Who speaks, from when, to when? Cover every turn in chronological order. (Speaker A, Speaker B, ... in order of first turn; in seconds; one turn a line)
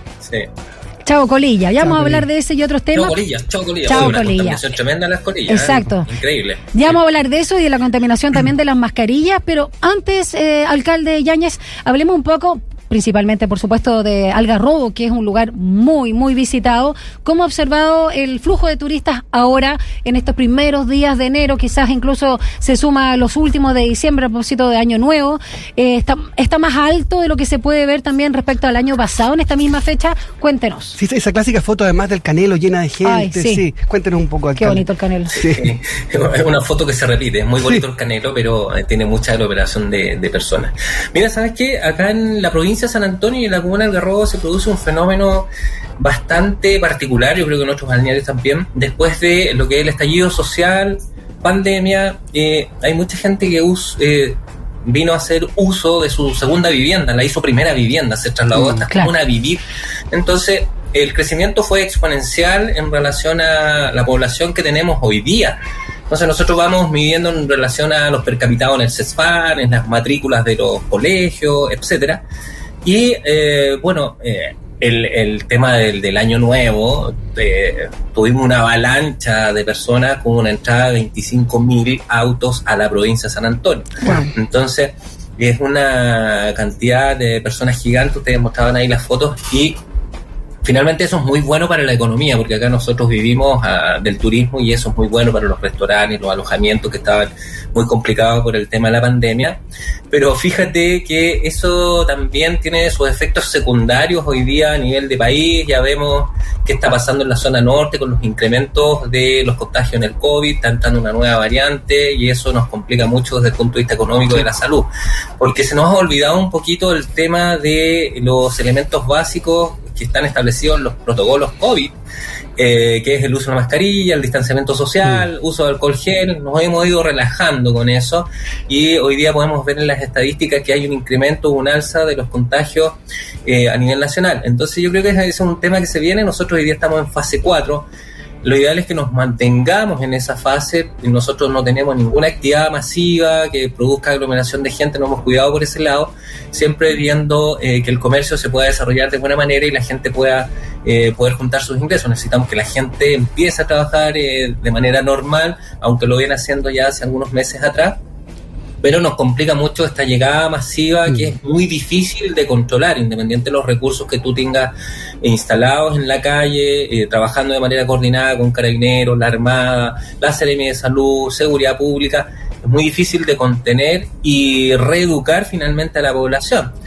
Speaker A: 0.2-0.5
Speaker B: 1.1-3.2
Speaker C: 1.8-2.3
Speaker A: 2.9-7.0
Speaker B: 3.8-4.6
Speaker B: 5.5-6.1
Speaker B: 6.7-31.0
Speaker C: 31.0-35.6
Speaker B: 33.0-33.6
Speaker B: 34.6-35.3
Speaker A: 35.3-65.6
Speaker A: 66.1-72.2
Speaker A: 72.8-89.8
Speaker B: 84.0-84.3
Speaker A: 90.6-99.6
Speaker A: 100.1-122.0
Speaker A: 122.6-137.9
Speaker A: 138.4-158.0
Speaker A: 158.8-176.7